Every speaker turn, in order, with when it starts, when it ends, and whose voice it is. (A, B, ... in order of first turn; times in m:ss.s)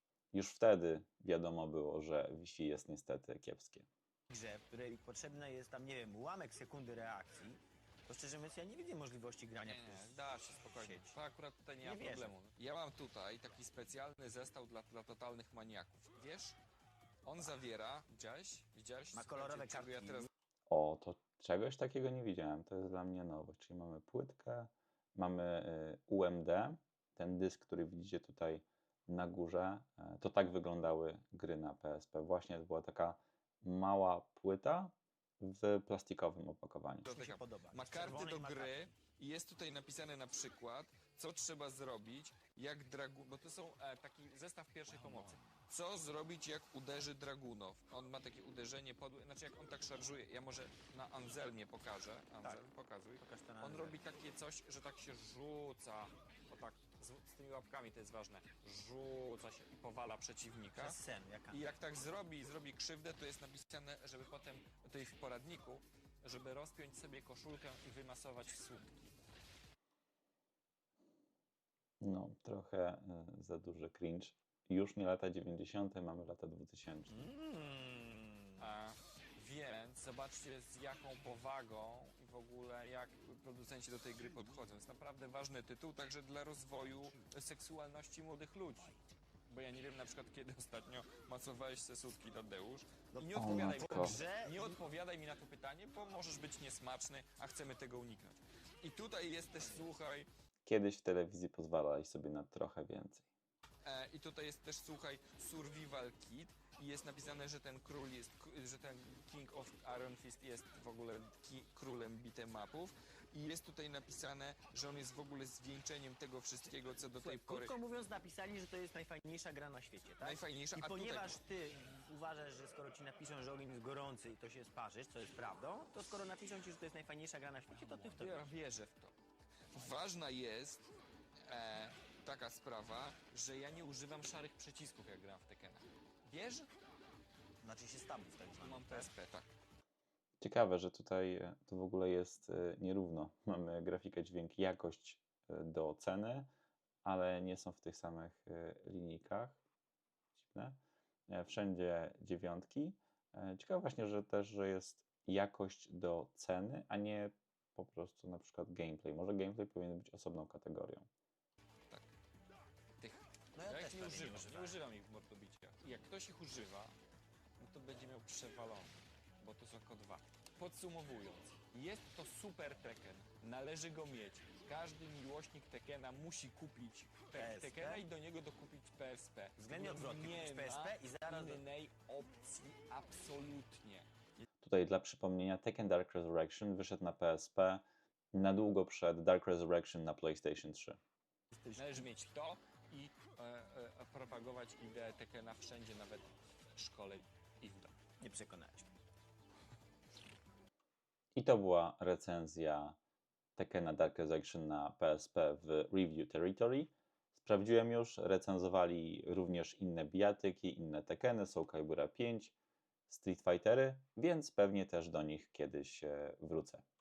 0:00.3-0:03.9 A
0:04.3-0:11.2 B
0:09.6-0:16.6 C
0:11.8-0:12.3 B
0:17.2-0:20.3 C
0:19.1-0:20.3 B
0:20.7-0:37.1 A
0:37.0-1:01.0 C
0:37.1-0:38.9 B
0:53.2-0:54.0 B
1:00.8-1:01.8 B
1:01.5-1:09.1 C
1:12.0-1:17.3 A
1:17.1-1:18.7 B
1:18.6-1:40.3 C
1:33.1-1:34.7 B
1:33.4-1:34.2 A
1:40.6-1:43.2 A
1:43.8-1:57.8 C
1:57.2-2:08.5 B
2:00.2-2:01.4 C
2:08.1-2:09.1 C
2:09.7-2:10.8 C
2:11.4-2:16.7 C
2:17.6-2:19.1 B
2:18.6-2:19.5 C
2:20.4-2:26.5 A
2:27.0-2:29.6 A
2:30.4-2:30.8 A
2:31.3-2:41.1 A
2:43.0-2:47.0 C
2:43.5-2:44.8 B
2:47.6-3:04.1 C
2:57.3-2:58.0 B
2:59.6-3:01.6 B
3:04.6-3:11.0 A
3:11.5-3:12.0 B
3:11.7-3:17.9 C
3:18.2-3:18.9 B
3:21.3-3:23.0 A
3:23.6-3:32.5 A
3:33.1-3:36.8 A